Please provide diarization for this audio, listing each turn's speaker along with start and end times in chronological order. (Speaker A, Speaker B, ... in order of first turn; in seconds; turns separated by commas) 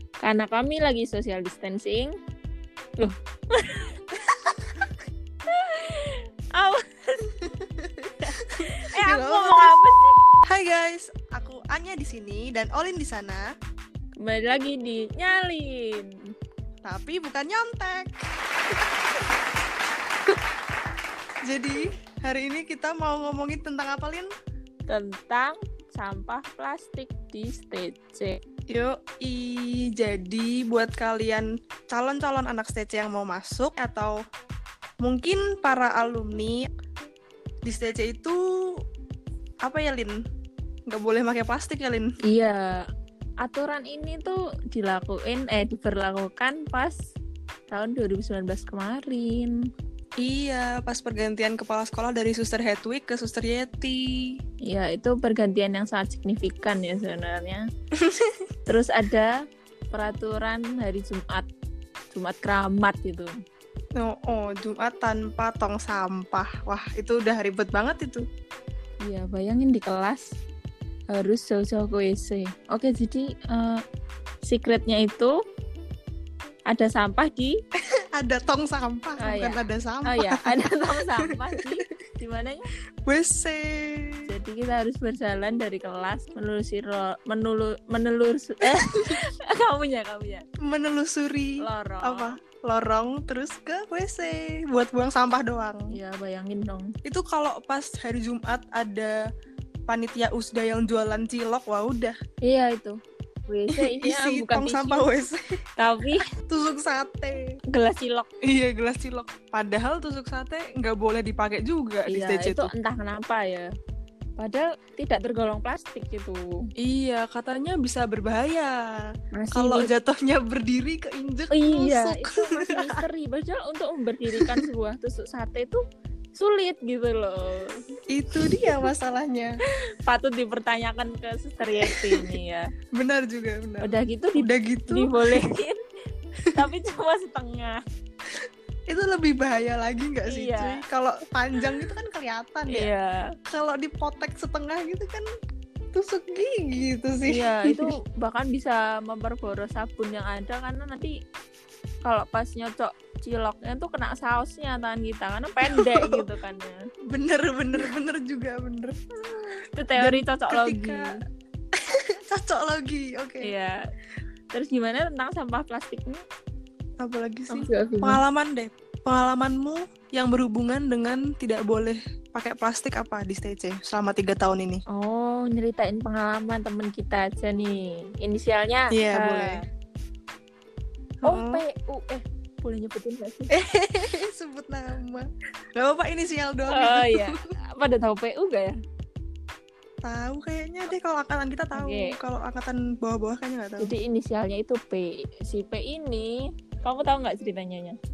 Speaker A: 0.2-2.1, Speaker A: 3.0-4.0, Speaker A: 5.5-7.2, Speaker B: 7.6-9.8, Speaker A: 8.7-10.1, Speaker B: 10.5-13.5, Speaker A: 14.2-16.1, Speaker B: 16.8-18.1, Speaker B: 21.4-24.3, Speaker A: 24.9-28.4, Speaker B: 28.7-34.1, Speaker B: 35.0-36.7, Speaker B: 37.6-38.8, Speaker B: 39.6-40.2, Speaker B: 40.9-42.1, Speaker A: 42.3-42.8, Speaker A: 43.4-47.1, Speaker A: 47.7-49.5, Speaker B: 50.2-54.4, Speaker A: 54.6-57.6, Speaker B: 58.0-58.3, Speaker A: 58.7-59.3, Speaker A: 59.9-61.5, Speaker A: 62.1-63.3, Speaker B: 64.0-68.2, Speaker A: 69.0-70.4, Speaker A: 71.1-73.8, Speaker A: 74.4-75.3, Speaker A: 76.7-77.5, Speaker B: 78.1-80.5, Speaker A: 79.2-82.7, Speaker B: 81.2-81.8, Speaker B: 83.0-84.3, Speaker A: 84.3-90.4, Speaker B: 88.6-89.2, Speaker B: 90.6-95.9, Speaker A: 91.6-92.3, Speaker A: 95.9-96.9, Speaker B: 97.0-99.2, Speaker B: 99.9-102.2, Speaker A: 102.4-102.9, Speaker A: 103.5-105.1, Speaker B: 103.7-105.4, Speaker A: 105.8-106.2, Speaker B: 106.4-107.5, Speaker A: 107.7-108.3, Speaker B: 108.5-112.7, Speaker A: 112.1-113.7, Speaker A: 114.4-116.6, Speaker B: 116.8-118.9, Speaker A: 119.3-119.9, Speaker B: 119.5-123.0, Speaker A: 121.5-125.8, Speaker B: 124.3-124.6, Speaker A: 126.3-127.8, Speaker B: 128.1-129.5, Speaker A: 128.5-128.9, Speaker A: 130.1-132.7, Speaker B: 131.7-132.4, Speaker B: 132.9-135.4, Speaker A: 133.8-135.8, Speaker A: 136.5-137.8, Speaker B: 138.9-142.9, Speaker A: 140.3-140.8, Speaker A: 142.7-143.3, Speaker B: 143.5-145.2, Speaker B: 145.9-147.9, Speaker A: 147.3-151.1, Speaker A: 152.0-156.8, Speaker B: 155.7-156.2, Speaker B: 157.1-158.9, Speaker A: 159.7-161.1, Speaker B: 160.0-161.1, Speaker B: 161.8-163.5, Speaker A: 163.4-163.7, Speaker A: 164.5-166.2, Speaker B: 167.0-174.8, Speaker A: 167.5-168.2, Speaker A: 174.9-179.6, Speaker B: 178.9-179.6, Speaker B: 181.2-181.6, Speaker A: 181.2-183.5, Speaker B: 183.5-187.3, Speaker A: 186.7-188.7, Speaker B: 190.0-193.9, Speaker A: 191.7-192.2, Speaker A: 193.8-197.9